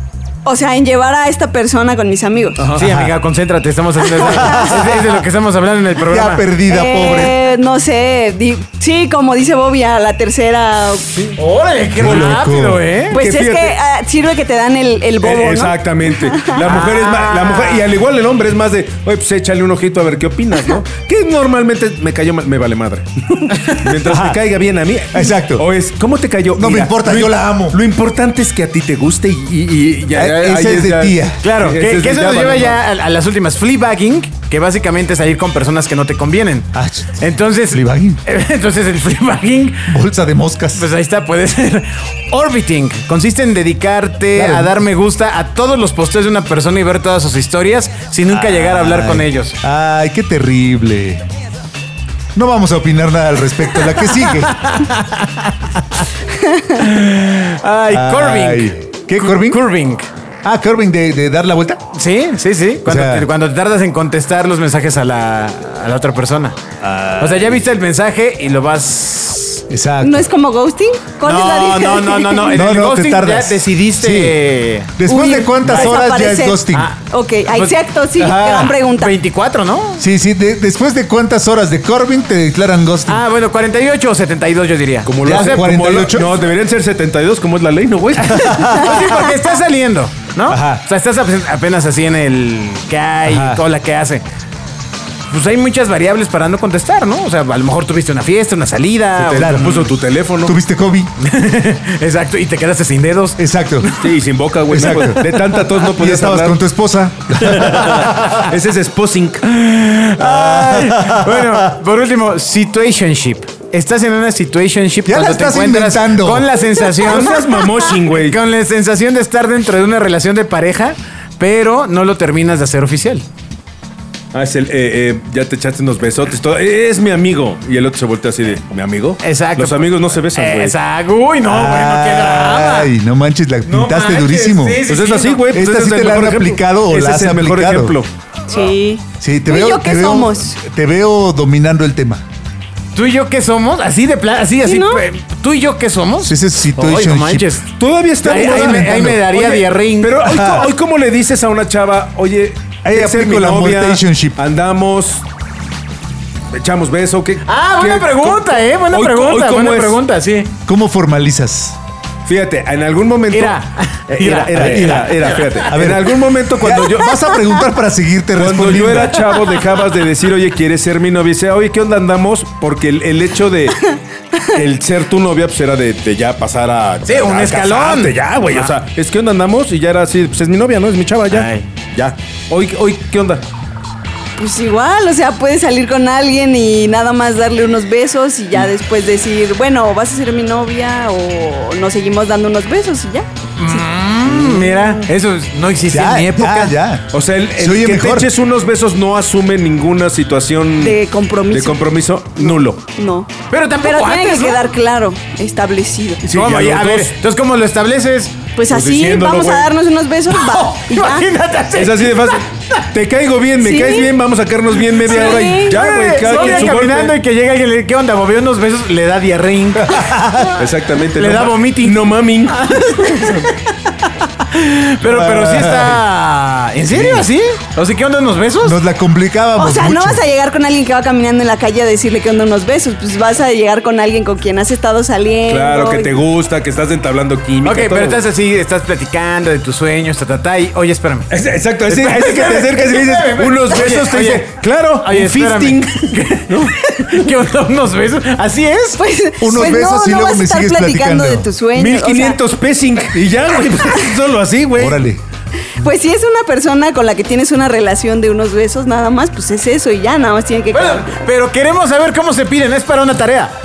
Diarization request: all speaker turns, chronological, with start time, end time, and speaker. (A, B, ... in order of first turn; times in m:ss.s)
0:00.4-0:02.6 A
0:02.6-0:02.9 B
0:02.7-0:06.5 C
0:02.8-0:03.1 D
0:04.1-0:04.8 A
0:04.3-0:05.0 D
0:06.0-0:07.4 D
0:06.6-0:11.1 A
0:11.4-0:13.2 C
0:12.0-0:12.9 D
0:12.0-0:12.4 B
0:13.1-0:13.8 B
0:13.1-0:16.8 A
0:15.2-0:32.8 B
0:16.6-0:17.8 C
0:23.5-0:23.8 C
0:24.0-0:24.4 D
0:25.1-0:25.6 D
0:26.5-0:27.8 D
0:30.1-0:31.4 D
0:31.4-0:39.9 C
0:36.7-0:38.2 D
0:39.9-0:40.9 D
0:40.7-0:49.6 C
0:44.3-0:44.8 D
0:48.3-0:51.2 D
0:52.3-0:54.7 D
0:53.8-0:56.1 C
0:56.7-1:00.1 C
0:57.9-0:59.7 D
1:00.4-1:01.8 D
1:01.9-1:06.6 C
1:02.8-1:03.3 D
1:06.8-1:07.6 D
1:07.2-1:09.6 C
1:09.7-1:10.3 D
1:10.0-1:12.8 A
1:11.2-1:15.0 C
1:12.5-1:14.4 D
1:14.9-1:16.9 D
1:15.0-1:19.2 A
1:16.7-1:17.0 C
1:18.2-1:18.8 D
1:19.0-1:20.0 C
1:20.0-1:23.2 D
1:23.1-1:25.7 C
1:25.0-1:28.8 B
1:25.2-1:26.4 D
1:28.3-1:29.1 D
1:28.3-1:34.2 C
1:30.5-1:30.8 D
1:33.2-1:33.6 D
1:35.3-1:39.8 C
1:39.2-1:40.6 B
1:39.3-1:39.7 D
1:40.4-1:41.1 D
1:41.2-1:44.1 C
1:43.4-1:43.9 D
1:44.0-1:46.6 B
1:44.7-1:48.4 D
1:44.8-1:45.2 C
1:47.4-1:49.4 B
1:49.4-1:57.4 C
1:50.2-1:51.7 D
1:55.0-1:56.7 D
1:57.0-1:58.4 B
1:58.0-2:03.2 C
2:04.3-2:10.8 B
2:09.2-2:12.9 C
2:11.4-2:14.8 D
2:13.6-2:15.5 C
2:14.9-2:18.1 B
2:15.5-2:18.0 D
2:18.5-2:20.6 A
2:19.2-2:22.2 D
2:22.9-2:27.6 C
2:24.6-2:25.0 A
2:26.2-2:27.5 D
2:27.8-2:35.2 B
2:28.2-2:30.4 C
2:28.3-2:29.1 D
2:30.2-2:30.7 D
2:32.8-2:34.4 D
2:36.5-2:40.0 B
2:37.4-2:40.5 C
2:40.6-2:41.8 D
2:42.2-2:47.3 B
2:43.3-2:45.8 C
2:44.5-2:49.3 D
2:48.4-2:53.9 B
2:54.4-3:03.4 B
2:57.0-2:58.7 C
3:01.3-3:01.6 C
3:04.4-3:13.9 A
3:13.6-3:16.8 C
3:14.4-3:15.0 B
3:15.9-3:18.3 D
3:17.1-3:21.0 B
3:20.8-3:21.8 A
3:21.5-3:22.8 B
3:22.4-3:23.3 A
3:23.5-3:24.6 C
3:23.8-3:26.2 A
3:26.2-3:28.3 C
3:26.3-3:27.1 B
3:28.6-3:31.3 A
3:28.7-3:29.7 B
3:30.3-3:32.4 C
3:31.7-3:37.2 B
3:33.6-3:34.1 A
3:35.0-3:36.8 A
3:35.0-3:40.4 C
3:39.8-3:40.6 D
3:40.5-3:43.4 B
3:41.2-3:48.8 C
3:45.0-3:46.0 D
3:46.9-3:47.3 D
3:48.6-3:50.2 D
3:49.6-3:56.1 A
3:55.5-3:58.2 B
3:57.6-4:01.3 C
4:01.3-4:06.7 B
4:01.9-4:04.5 C
4:05.0-4:09.0 C
4:09.0-4:12.4 A
4:09.4-4:11.5 D
4:11.7-4:15.0 B
4:14.8-4:15.2 D
4:15.8-4:21.2 A
4:20.7-4:23.5 C